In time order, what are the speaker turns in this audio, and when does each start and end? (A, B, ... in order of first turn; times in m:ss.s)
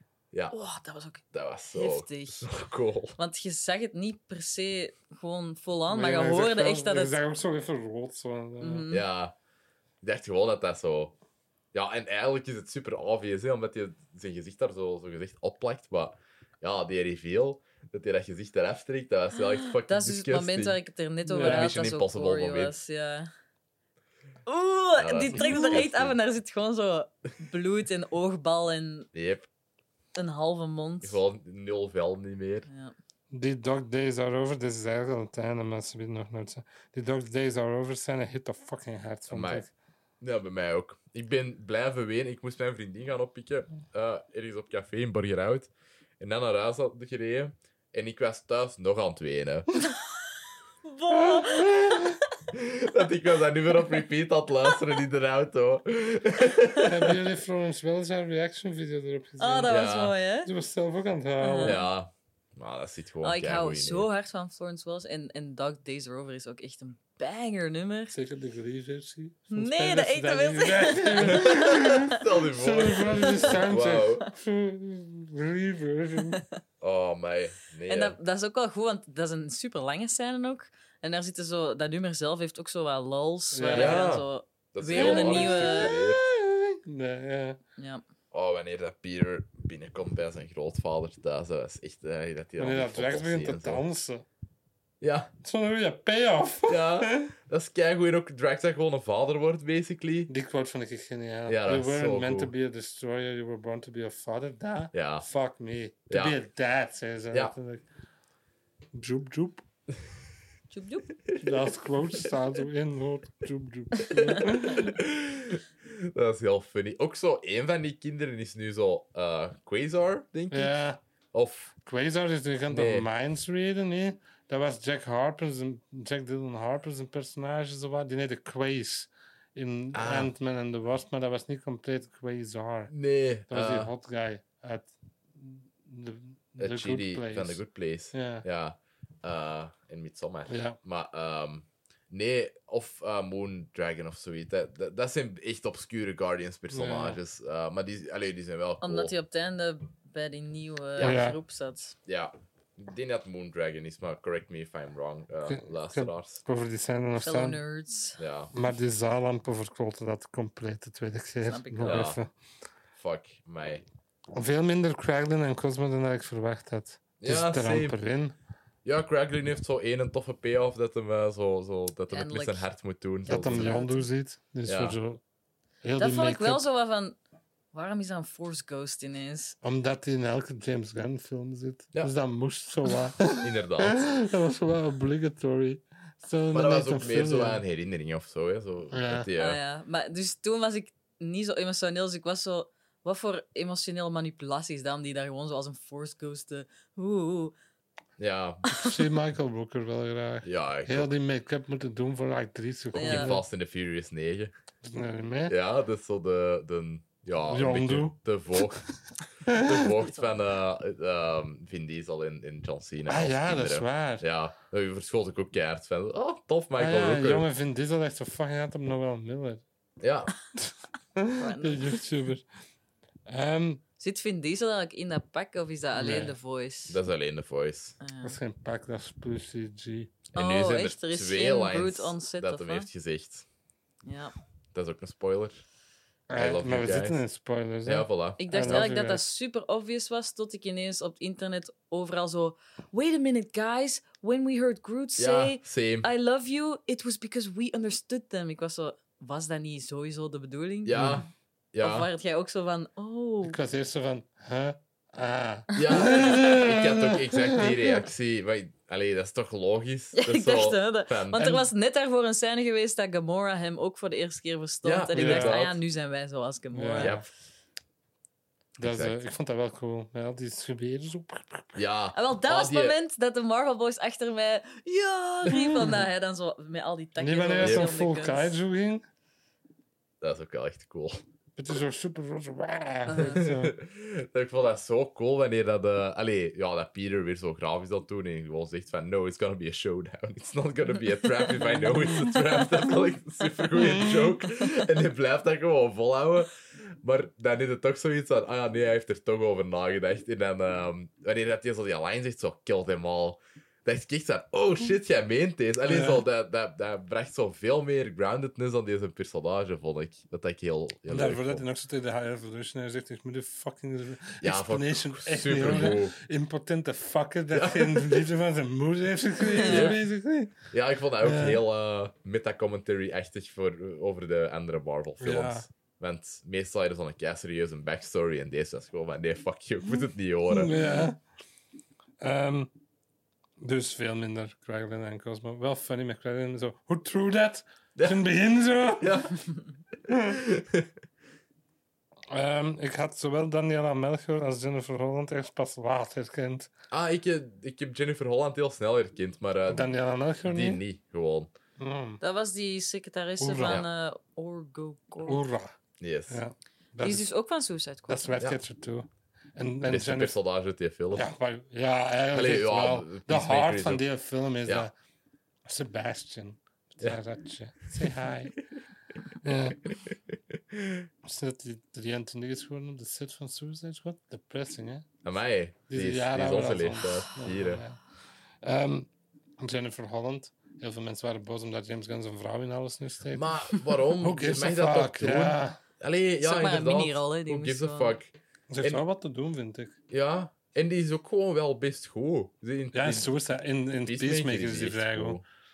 0:00.5-0:02.5 A
0:01.3-0:03.2 B
0:03.2-0:07.2 A
0:05.9-0:08.9 C
0:08.6-0:09.0 A
0:08.9-0:09.4 B
0:10.0-0:11.1 B
0:11.7-0:20.8 B
0:19.4-0:23.3 A
0:21.3-0:21.7 C
0:21.4-0:22.7 B
0:24.5-0:29.1 A
0:25.0-0:26.2 B
0:25.4-0:25.6 C
0:29.1-0:29.5 B
0:30.1-0:31.2 A
0:31.0-0:32.7 B
0:32.7-0:32.9 A
0:33.3-0:39.7 C
0:39.3-0:39.6 B
0:40.2-0:49.7 B
0:50.8-0:52.2 A
0:51.1-0:52.2 C
0:52.5-0:57.1 B
0:56.8-0:59.8 C
0:59.4-1:00.5 A
0:59.7-1:00.2 B
1:00.4-1:01.8 C
1:01.4-1:01.8 A
1:01.6-1:04.1 B
1:03.2-1:08.1 A
1:08.1-1:16.4 C
1:09.5-1:12.2 A
1:11.3-1:14.3 B
1:13.2-1:13.6 A
1:16.2-1:16.4 A
1:16.8-1:18.2 B
1:17.9-1:25.9 A
1:23.5-1:24.1 C
1:23.7-1:26.2 B
1:24.9-1:27.6 C
1:28.3-1:33.8 B
1:32.6-1:34.2 C
1:35.0-1:35.3 B
1:35.4-1:37.3 C
1:36.7-1:40.3 B
1:40.3-1:47.8 C
1:41.5-1:42.5 B
1:44.9-1:45.2 B
1:46.1-1:46.4 B
1:48.9-1:49.6 C
1:50.7-1:51.1 A
1:51.3-1:51.6 B
1:51.4-1:55.0 C
1:54.4-2:00.7 B
2:00.5-2:01.0 C
2:01.3-2:01.7 B
2:01.8-2:12.9 C
2:02.7-2:03.1 B
2:09.9-2:10.3 B
2:12.9-2:13.9 B
2:13.5-2:17.6 C
2:16.6-2:29.1 B
2:18.1-2:18.4 C
2:20.5-2:20.8 C
2:26.7-2:27.2 C
2:28.8-2:32.0 A
2:31.0-2:31.4 C
2:32.0-2:36.4 B
2:35.4-2:37.6 C
2:37.2-2:38.2 A
2:38.2-2:38.5 B
2:38.5-2:42.3 C
2:41.4-2:42.1 A
2:41.8-2:42.2 B
2:43.0-2:43.8 B
2:44.3-2:48.4 C
2:47.2-2:48.0 B
2:48.8-2:53.8 B
2:52.1-2:52.7 A
2:53.2-2:54.0 A
2:53.3-2:55.2 C
2:54.6-2:55.0 B
2:55.8-2:56.6 C
2:56.0-2:57.2 A
2:57.7-2:59.6 A
2:59.6-3:07.6 C
3:03.3-3:04.1 B
3:06.5-3:09.6 B
3:08.9-3:09.3 C
3:09.4-3:17.5 A
3:18.2-3:18.6 B
3:18.7-3:19.0 A
3:18.7-3:23.4 C
3:20.4-3:21.1 B
3:22.9-3:23.3 A
3:22.9-3:24.5 B
3:24.8-3:25.5 C
3:25.5-3:28.8 B
3:27.5-3:28.9 C
3:29.4-3:29.8 C
3:29.4-3:37.5 B
3:30.0-3:30.3 A
3:33.0-3:34.2 C
3:36.8-3:39.6 C
3:40.0-3:40.3 B
3:41.2-3:42.4 C
3:41.3-3:42.0 A
3:43.3-3:43.8 C
3:44.0-3:47.0 A
3:45.9-3:46.3 C
3:46.9-3:48.0 B
3:48.0-3:48.4 A
3:48.2-3:50.2 C
3:50.3-3:53.4 B
3:50.4-3:52.9 A
3:54.0-3:54.3 A
3:54.7-3:55.6 B
3:56.3-3:59.2 C
3:56.3-3:57.2 B
3:57.8-3:58.9 B
3:58.4-4:11.2 A
4:05.2-4:06.1 B
4:10.8-4:12.1 B
4:11.0-4:11.2 C
4:11.8-4:13.6 A
4:13.4-4:17.7 C
4:15.7-4:16.1 A
4:15.7-4:21.7 B
4:20.1-4:27.2 A
4:24.8-4:25.8 B
4:25.1-4:25.6 C
4:26.7-4:27.2 C
4:27.0-4:27.2 B
4:28.8-4:29.2 B
4:28.8-4:31.8 C
4:31.7-4:33.0 B
4:32.1-4:38.5 A
4:37.2-4:39.0 C
4:37.6-4:37.9 B
4:40.2-4:41.2 B
4:41.6-4:43.7 C
4:43.1-4:43.5 A
4:43.2-5:11.6 B
4:53.7-4:54.4 C
5:05.9-5:06.2 C
5:11.1-5:20.6 C
5:14.4-5:16.2 B
5:17.5-5:18.3 B
5:19.5-5:20.0 A
5:19.5-5:20.0 B
5:20.7-5:30.7 B
5:21.2-5:21.6 C
5:25.2-5:25.7 C
5:30.5-5:31.2 C
5:32.2-5:32.7 C
5:33.6-5:39.2 C
5:38.0-5:38.2 B
5:39.0-5:39.4 B
5:40.1-5:40.9 B
5:42.3-5:46.7 C
5:46.9-5:49.9 B
5:49.7-5:50.8 C
5:50.4-5:51.5 B
5:51.8-5:52.2 C
5:52.2-5:55.4 A
5:53.4-5:53.8 C
5:55.2-5:55.8 C
5:56.0-5:56.4 B
5:56.3-5:57.3 C
5:57.0-5:58.3 A
5:58.1-6:00.4 C
5:59.9-6:01.3 B
6:01.1-6:04.9 C
6:02.3-6:04.0 B
6:05.6-6:08.6 C
6:09.4-6:09.9 C
6:09.8-6:11.1 B
6:11.2-6:15.1 C
6:15.2-6:17.8 B
6:15.9-6:18.0 C
6:18.6-6:25.8 C
6:23.3-6:29.0 B
6:26.4-6:28.1 A
6:28.7-6:30.0 C
6:30.1-6:33.3 B
6:32.9-6:35.4 C
6:34.0-6:35.4 B